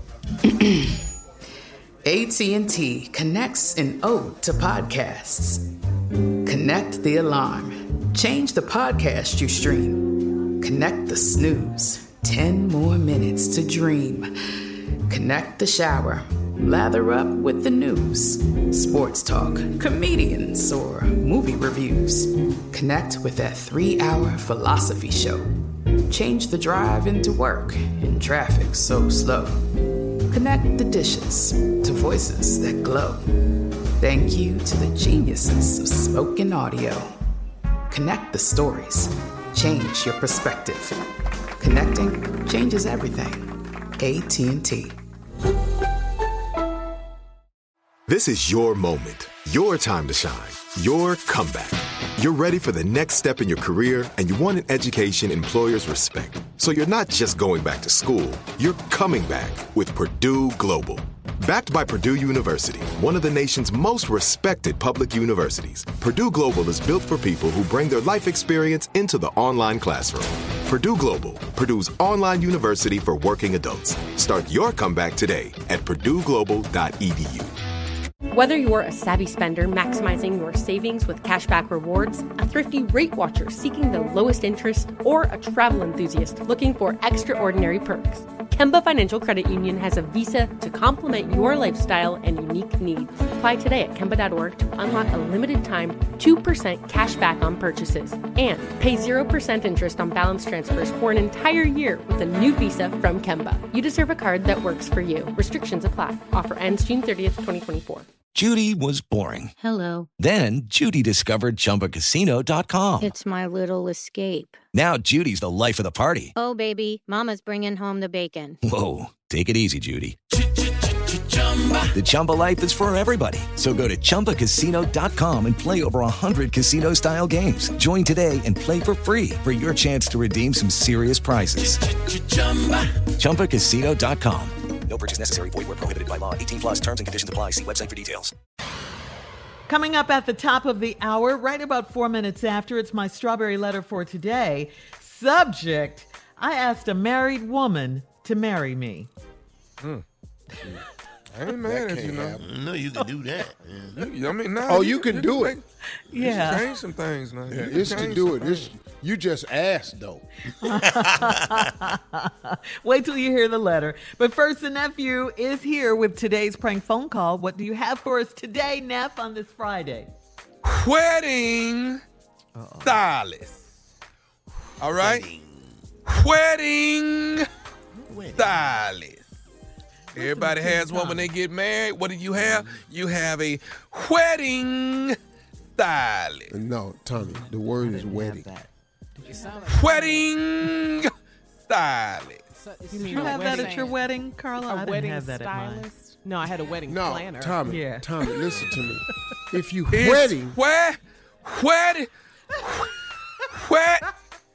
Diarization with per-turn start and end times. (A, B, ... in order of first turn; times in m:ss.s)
0:00.4-0:01.0 A
0:02.0-0:05.6 A
0:06.4-0:14.3 A
0:15.1-0:25.5 A
0:26.1-0:29.6 A
0:30.3-0:33.2 A
0:34.0-0:37.1 A
0:37.9-0:41.0 A
0:41.6-0:45.0 A
0:48.1-1:17.5 B
1:18.3-1:48.1 C
1:48.3-1:49.5 D
1:50.1-1:53.1 D
1:53.0-1:53.4 E
1:54.7-1:56.3 D
1:56.4-1:57.5 E
1:58.1-1:58.4 E
1:58.6-2:00.2 D
2:01.9-2:12.5 D
2:13.1-2:18.3 D
2:19.7-2:29.1 F
2:31.3-2:32.4 G
2:31.6-2:32.5 H
2:32.4-2:34.0 I
2:34.0-2:35.6 G
2:34.6-2:35.6 H
2:36.1-2:36.8 F
2:36.1-2:38.7 G
2:37.5-2:40.2 H
2:40.6-2:50.1 F
2:40.8-2:41.7 I
2:50.6-2:52.0 G
2:52.6-2:53.0 F
2:52.8-2:53.5 G
2:54.8-2:55.2 G
2:54.8-2:56.0 I
2:56.0-2:57.4 G
2:58.1-2:58.7 I
2:58.3-2:59.2 G
3:00.1-3:05.2 G
3:00.2-3:01.3 F
3:02.4-3:02.8 I
3:05.8-3:06.5 G
3:06.5-3:08.5 H
3:07.7-3:08.7 F
3:09.2-3:09.5 F
3:09.2-3:10.4 J
3:09.7-3:11.1 G
3:11.7-3:12.4 G
3:12.6-3:18.6 J
3:12.9-3:15.9 F
3:16.8-3:20.6 H
3:17.7-3:18.1 F
3:19.9-3:22.1 G
3:23.6-3:24.0 G